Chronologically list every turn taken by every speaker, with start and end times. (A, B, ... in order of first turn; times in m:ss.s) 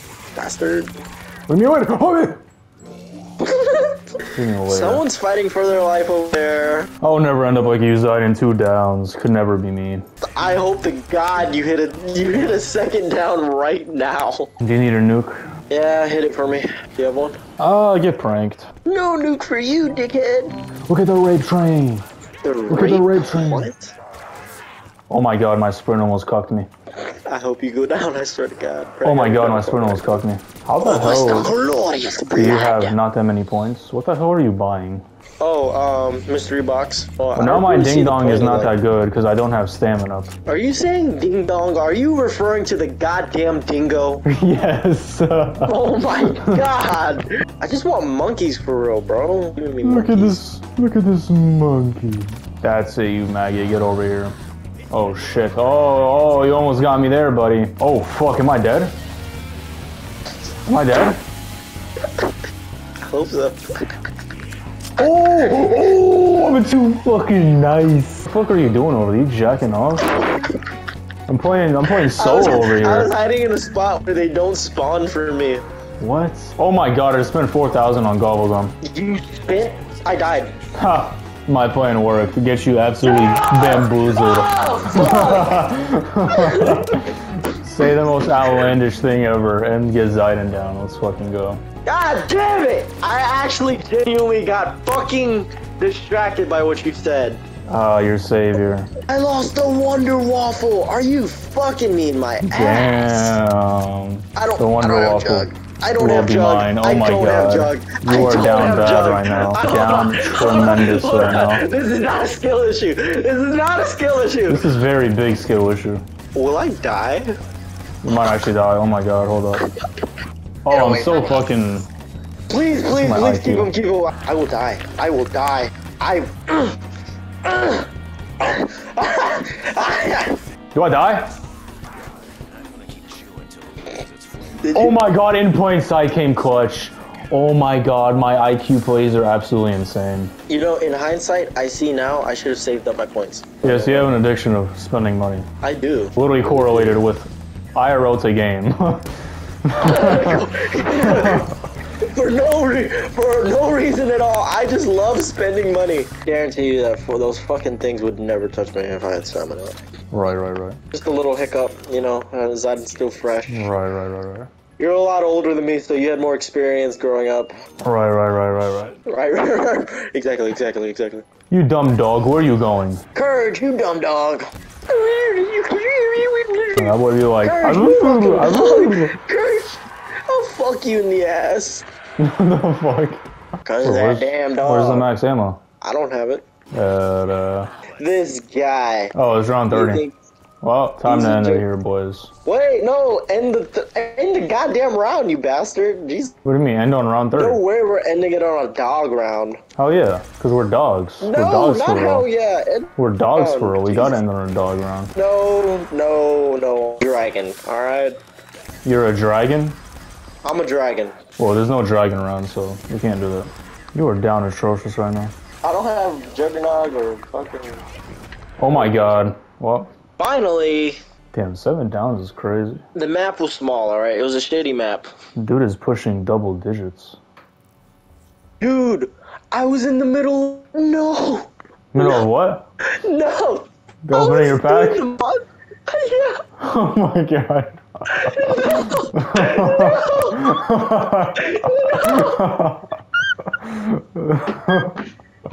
0:00.3-0:00.9 A
0:01.5-0:02.4 B
0:03.4-0:06.9 A
0:04.3-0:05.0 B
0:07.0-0:10.0 B
0:10.2-0:14.5 A
0:14.6-0:15.4 B
0:15.7-0:17.4 A
0:17.6-0:18.7 B
0:18.8-0:20.6 A
0:20.9-0:22.0 B
0:22.4-0:23.9 A
0:22.7-0:23.7 B
0:25.1-0:26.7 B
0:27.2-0:30.2 A
0:29.0-0:31.5 B
0:30.8-0:33.0 A
0:32.3-0:35.0 B
0:35.4-0:38.7 A
0:37.3-0:40.3 B
0:40.4-0:44.2 A
0:44.2-0:46.6 B
0:45.6-0:50.4 A
0:49.8-0:54.3 B
0:54.9-0:58.9 B
1:00.7-1:01.2 B
1:03.0-1:03.6 A
1:05.0-1:10.1 B
1:10.1-1:10.6 A
1:11.3-1:13.1 B
1:11.9-1:15.6 A
1:16.0-1:18.7 B
1:18.8-1:20.5 A
1:20.7-1:31.6 B
1:23.0-1:25.7 A
1:26.3-1:27.1 A
1:28.1-1:28.7 A
1:31.8-1:37.4 A
1:37.7-1:38.9 B
1:39.1-1:43.4 A
1:42.4-1:51.6 B
1:44.4-1:54.7 A
1:54.5-1:56.0 B
1:56.3-1:57.4 A
1:58.0-1:59.6 B
2:00.6-2:01.9 B
2:00.7-2:01.4 A
2:02.5-2:06.8 A
2:02.9-2:03.7 B
2:07.4-2:07.9 A
2:08.4-2:10.4 A
2:10.7-2:11.3 B
2:14.6-2:15.0 A
2:14.7-2:20.3 B
2:20.5-2:24.1 A
2:23.6-2:25.5 B
2:25.6-2:27.0 A
2:26.2-2:29.1 B
2:29.6-2:30.5 B
2:29.8-2:31.5 A
2:31.2-2:31.5 B
2:32.0-2:39.8 A
2:40.1-2:40.8 B
2:40.9-2:43.7 A
2:43.5-2:44.5 B
2:44.8-2:47.5 A
2:47.8-2:49.0 B
2:49.0-2:51.2 A
2:51.5-2:53.0 B
2:53.1-3:01.8 A
2:56.8-2:59.2 B
3:02.2-3:03.2 B
3:03.6-3:05.1 A
3:03.8-3:05.6 B
3:05.8-3:06.4 A
3:06.7-3:07.7 B
3:08.0-3:09.1 A
3:09.1-3:10.0 B
3:09.7-3:10.1 A
3:10.6-3:12.3 B
3:11.0-3:11.7 A
3:12.4-3:16.3 A
3:16.4-3:17.6 B
3:17.3-3:19.6 A
3:19.8-3:22.3 B
3:21.2-3:24.2 A
3:23.0-3:25.1 B
3:25.1-3:28.2 A
3:28.8-3:29.8 B
3:30.4-3:31.2 A
3:31.4-3:35.3 B
3:35.6-3:37.8 A
3:38.6-3:39.9 B
3:38.7-3:39.2 A
3:40.2-3:41.0 A
3:41.3-3:42.8 B
3:42.9-3:45.1 A
3:45.4-3:47.2 B
3:48.6-3:52.2 A
3:51.9-3:52.6 B
3:52.9-3:56.4 A
3:54.0-3:55.1 B
3:56.6-4:05.1 B
3:58.1-4:00.5 A
4:01.4-4:02.5 A